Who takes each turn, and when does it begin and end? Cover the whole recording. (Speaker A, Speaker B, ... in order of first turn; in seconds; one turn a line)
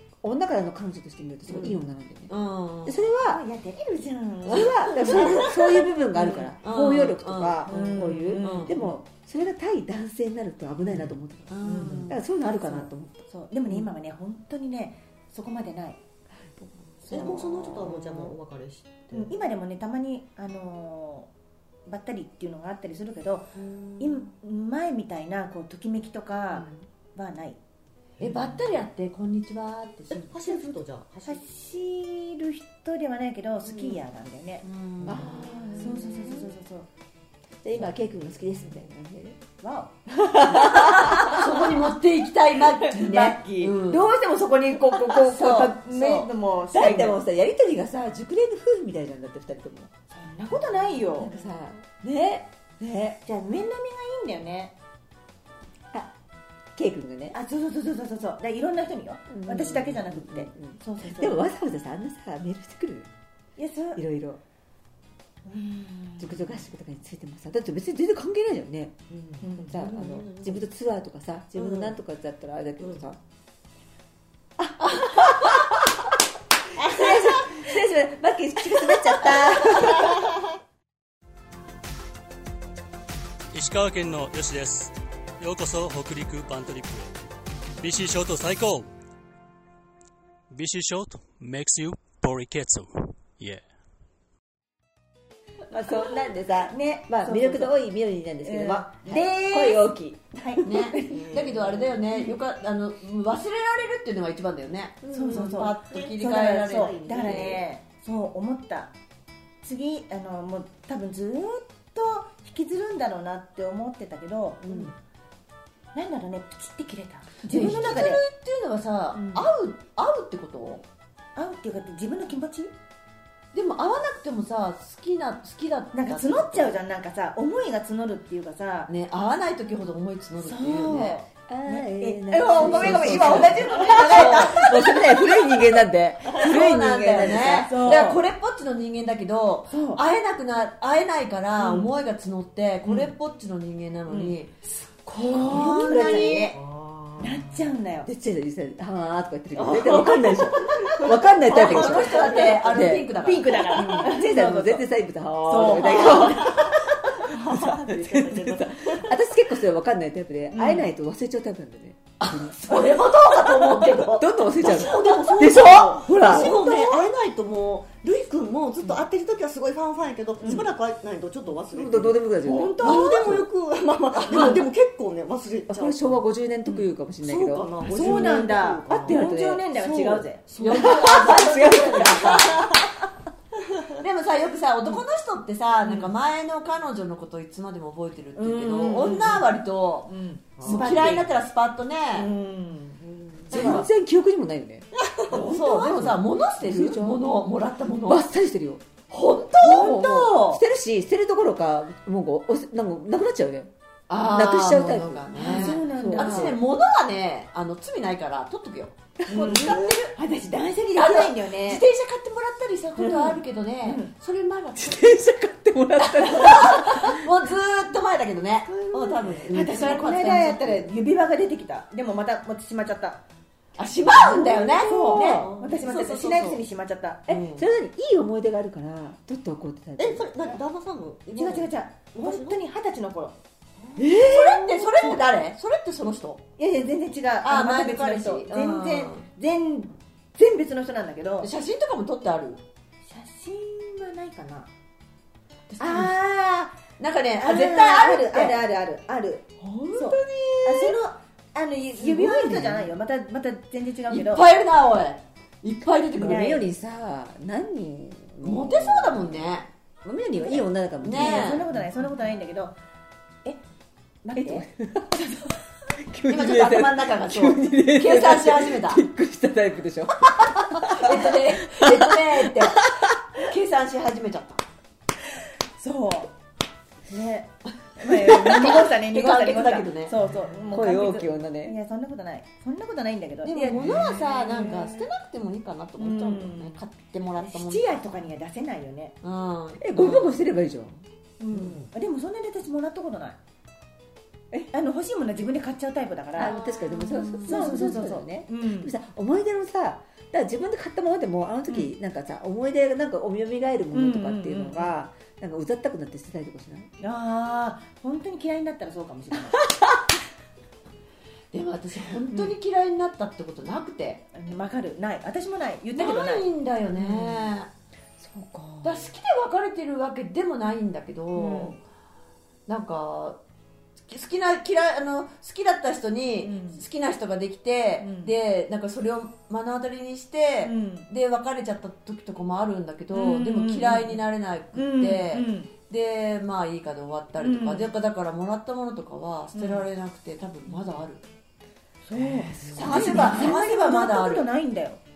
Speaker A: 0.2-2.3
Speaker B: 2.3-3.0
Speaker A: 2.8-3.4
Speaker C: 3.2-5.5
Speaker B: 4.5-5.5
Speaker A: 4.5-13.2
Speaker B: 6.2-8.8
Speaker C: 7.7-8.9
Speaker B: 11.5-12.2
Speaker C: 11.6-16.0
Speaker D: 17.0-19.4
Speaker A: 17.1-17.4
Speaker B: 18.0-18.3
Speaker C: 19.1-21.3
Speaker C: 21.9-27.6
Speaker D: 23.6-24.2
Speaker B: 28.2-30.4
Speaker D: 28.2-28.6
Speaker D: 30.1-31.4
Speaker C: 31.2-36.9
Speaker B: 34.6-35.9
Speaker A: 35.1-36.5
Speaker A: 37.6-39.4
Speaker C: 39.6-41.8
Speaker A: 40.1-41.4
Speaker B: 40.5-44.1
Speaker C: 42.9-47.2
Speaker B: 45.1-46.3
Speaker A: 46.7-49.9
Speaker C: 50.1-51.3
Speaker A: 51.2-53.2
Speaker C: 53.2-54.7
Speaker A: 56.7-57.4
Speaker C: 57.3-61.4
Speaker A: 59.3-63.1
Speaker C: 63.6-64.0
Speaker A: 64.0-64.4
Speaker C: 65.4-66.6
Speaker A: 66.2-69.0
Speaker D: 69.1-70.6
Speaker C: 69.4-69.7
Speaker A: 69.5-73.2
Speaker D: 71.6-71.9
Speaker A: 74.6-75.9
Speaker A: 76.7-80.1
Speaker E: 83.5-87.2
Speaker E: 87.8-88.9
Speaker E: 90.5-93.7
Speaker A: 95.7-100.6
Speaker C: 96.7-97.7
Speaker C: 98.4-101.3
Speaker B: 100.6-107.5
Speaker D: 101.1-102.1
Speaker A: 105.0-105.3
Speaker C: 105.1-108.9
Speaker D: 105.2-107.7
Speaker C: 109.6-114.9
Speaker D: 114.7-114.9
Speaker C: 115.9-118.2
Speaker B: 117.5-120.8
Speaker C: 119.1-119.5
Speaker C: 121.3-122.7
Speaker B: 123.5-126.7
Speaker C: 125.9-128.9
Speaker B: 128.9-131.2
Speaker C: 130.4-135.0
Speaker A: 131.5-138.1
Speaker B: 132.5-135.2
Speaker B: 136.3-146.6
Speaker C: 137.7-138.2
Speaker C: 139.7-140.0
Speaker C: 141.6-141.9
Speaker C: 142.8-143.1
Speaker C: 144.1-146.5
Speaker A: 145.3-146.5
Speaker D: 146.5-147.7
Speaker C: 147.2-148.1
Speaker A: 148.1-153.1
Speaker D: 149.6-152.7
Speaker B: 149.7-150.3
Speaker B: 151.5-154.5
Speaker C: 151.7-154.8
Speaker A: 153.7-156.7
Speaker C: 155.4-156.7
Speaker D: 156.3-159.1
Speaker A: 157.3-162.6
Speaker C: 160.5-160.9
Speaker B: 162.2-167.1
Speaker A: 164.1-166.6
Speaker D: 164.8-176.2
Speaker C: 170.4-170.7
Speaker A: 171.7-173.4
Speaker C: 172.7-173.3
Speaker B: 174.2-174.6
Speaker A: 175.7-178.4
Speaker D: 176.7-180.9
Speaker C: 177.8-180.5
Speaker A: 178.9-179.6
Speaker B: 180.5-182.7
Speaker A: 180.6-182.7
Speaker B: 184.0-192.3
Speaker C: 188.3-189.5
Speaker C: 190.1-191.2
Speaker D: 190.6-191.1
Speaker C: 192.1-193.8
Speaker D: 193.1-193.7
Speaker A: 193.5-194.9
Speaker B: 193.5-193.9
Speaker D: 195.1-195.4
Speaker B: 195.3-198.3
Speaker A: 195.4-197.2
Speaker A: 198.1-198.8
Speaker B: 199.1-200.0
Speaker C: 199.6-200.6
Speaker A: 199.7-206.6
Speaker B: 204.1-210.2
Speaker C: 205.3-206.6
Speaker A: 209.2-209.6
Speaker C: 209.3-211.8
Speaker B: 210.9-215.2
Speaker C: 213.0-214.1
Speaker A: 214.8-217.2
Speaker B: 216.0-220.8
Speaker D: 218.7-219.8
Speaker C: 219.5-223.2
Speaker B: 223.8-226.6
Speaker C: 224.2-227.4
Speaker D: 225.1-225.9
Speaker B: 227.3-227.6
Speaker A: 227.5-230.3
Speaker D: 230.0-232.6
Speaker C: 231.3-233.3
Speaker D: 233.8-234.1
Speaker A: 234.0-234.6
Speaker B: 234.0-236.4
Speaker C: 236.6-241.5
Speaker B: 237.4-239.2
Speaker B: 241.4-242.6
Speaker C: 243.0-244.7
Speaker B: 245.7-246.2
Speaker C: 245.8-246.8
Speaker B: 247.0-248.6
Speaker C: 247.4-254.4
Speaker A: 249.7-251.0
Speaker A: 252.0-252.9
Speaker B: 254.1-256.6
Speaker A: 256.1-259.5
Speaker C: 256.2-256.6
Speaker B: 258.4-259.7
Speaker A: 260.0-261.8
Speaker C: 260.3-262.7
Speaker B: 261.0-261.6
Speaker C: 264.2-265.5
Speaker A: 264.4-265.3
Speaker A: 266.1-273.1
Speaker B: 266.3-269.0
Speaker B: 270.4-274.6
Speaker C: 275.8-276.3
Speaker C: 277.1-285.0
Speaker B: 278.0-280.1
Speaker A: 280.7-281.7
Speaker B: 283.4-288.0
Speaker D: 283.8-284.2
Speaker C: 286.0-286.8
Speaker C: 287.4-289.1
Speaker B: 289.2-290.4
Speaker A: 289.8-291.0
Speaker C: 291.4-293.4
Speaker D: 291.5-291.9
Speaker C: 294.7-296.6
Speaker A: 296.4-306.9
Speaker B: 296.4-298.0
Speaker C: 297.4-298.9
Speaker C: 303.9-304.9
Speaker C: 307.0-309.6
Speaker B: 311.5-314.2
Speaker C: 314.3-316.5
Speaker B: 315.9-317.7
Speaker A: 317.0-317.4
Speaker A: 318.2-319.0
Speaker B: 318.8-321.8
Speaker C: 321.3-321.8
Speaker B: 322.7-323.4
Speaker B: 324.1-341.2
Speaker C: 326.4-326.8
Speaker C: 328.0-328.3
Speaker C: 330.6-331.1
Speaker C: 333.1-334.2
Speaker C: 334.7-335.7
Speaker C: 337.4-337.9
Speaker C: 339.5-339.9
Speaker C: 342.1-345.0
Speaker D: 342.6-342.9
Speaker B: 342.6-344.5
Speaker A: 342.9-343.4